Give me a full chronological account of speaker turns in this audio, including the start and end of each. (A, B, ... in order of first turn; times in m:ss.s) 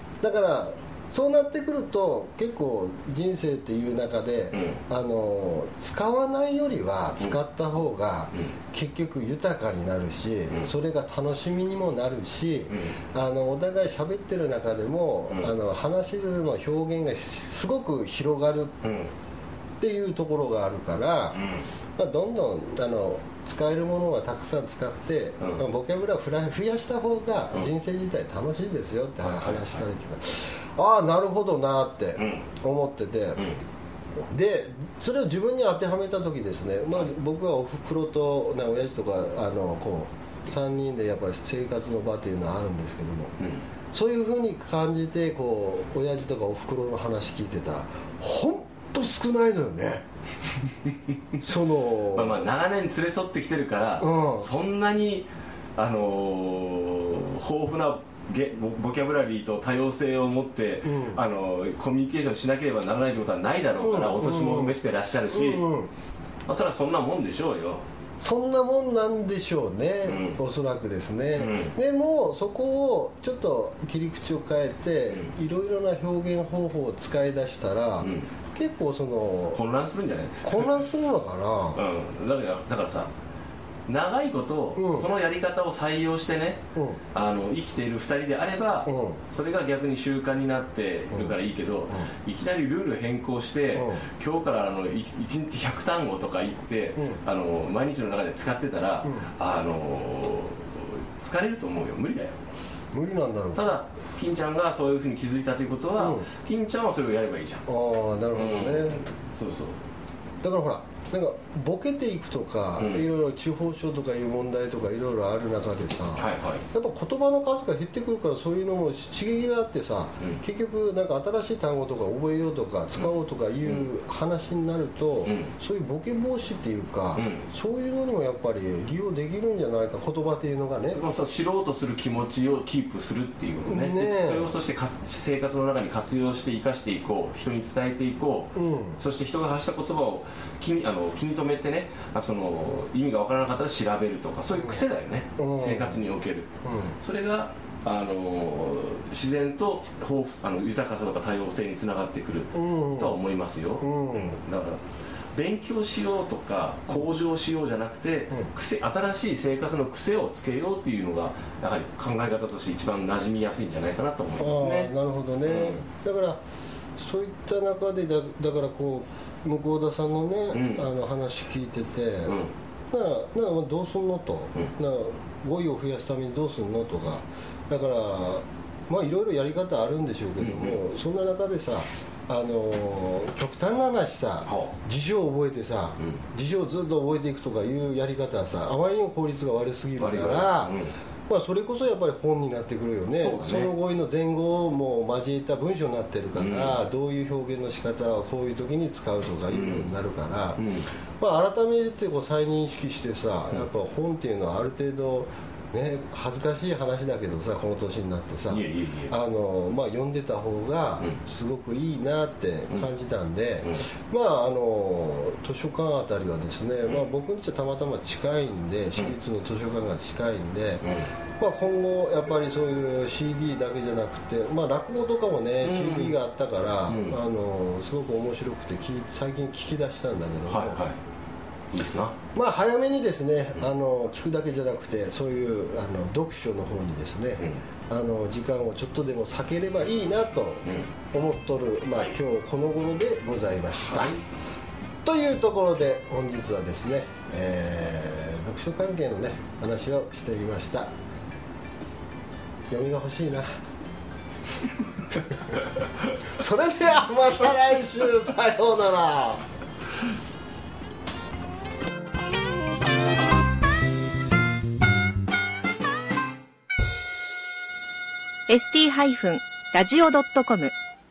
0:00.2-0:18.8 A
0:04.5-0:04.8 B
0:12.7-0:13.0 B
0:18.8-0:19.1 B
0:19.8-0:21.4 A
0:21.3-0:21.7 B
0:22.0-0:33.4 A
0:25.4-0:25.6 B
0:29.2-0:29.8 B
0:32.2-0:32.5 B
0:33.4-0:33.6 B
0:34.2-0:43.3 A
0:43.4-0:43.6 B
0:43.9-0:50.0 A
0:51.4-0:52.4 A
0:52.1-1:05.7 B
0:54.0-0:54.5 A
1:00.8-1:01.2 A
1:03.8-1:04.8 A
1:05.3-1:05.9 A
1:06.5-1:07.8 B
1:08.2-1:19.6 A
1:10.0-1:10.4 B
1:11.3-1:11.7 B
1:18.0-1:18.3 B
1:19.5-1:20.8 B
1:20.4-1:21.8 A
1:21.7-1:23.1 B
1:23.9-1:26.6 B
1:24.8-1:25.1 A
1:26.7-1:27.0 A
1:27.1-1:42.4 B
1:28.8-1:29.2 A
1:31.1-1:31.4 A
1:33.7-1:34.0 A
1:37.0-1:37.2 A
1:42.9-1:43.7 A
1:43.5-1:47.6 B
1:46.0-1:46.3 A
1:47.7-1:49.0 A
1:48.3-1:49.8 B
1:50.4-2:11.0 A
1:52.8-1:53.0 B
1:56.2-1:56.6 B
2:03.0-2:03.9 B
2:05.2-2:05.5 B
2:07.1-2:07.5 B
2:10.9-2:26.5 B
2:13.6-2:14.5 A
2:18.5-2:19.0 A
2:24.5-2:24.8 A
2:25.4-2:26.0 A
2:26.6-2:27.0 A
2:27.0-2:34.8 B
2:32.5-2:33.2 A
2:33.8-2:34.4 A
2:35.3-2:44.9 B
2:44.4-2:46.4 A
2:45.4-2:45.8 B
2:47.0-2:52.4 A
2:50.5-2:50.9 B
2:52.2-2:52.5 B
2:52.9-3:20.6 A
3:00.4-3:00.8 B
3:04.4-3:04.7 B
3:06.0-3:06.2 B
3:10.0-3:10.9 B
3:13.1-3:13.7 B
3:16.3-3:16.8 B
3:19.5-3:19.9 B
3:20.6-3:20.9 B
3:21.2-3:50.8 A
3:28.5-3:29.1 B
3:33.6-3:33.9 B
3:40.8-3:41.1 B
3:45.6-3:46.2 B
3:46.9-3:47.2 B
3:50.5-3:51.0 B
3:51.7-3:52.2 B
3:52.3-4:04.2 A
4:00.6-4:00.9 B
4:03.8-4:04.2 B
4:05.0-4:10.9 A
4:12.7-4:13.5 A
4:15.5-4:19.4 A
4:28.5-4:30.7 C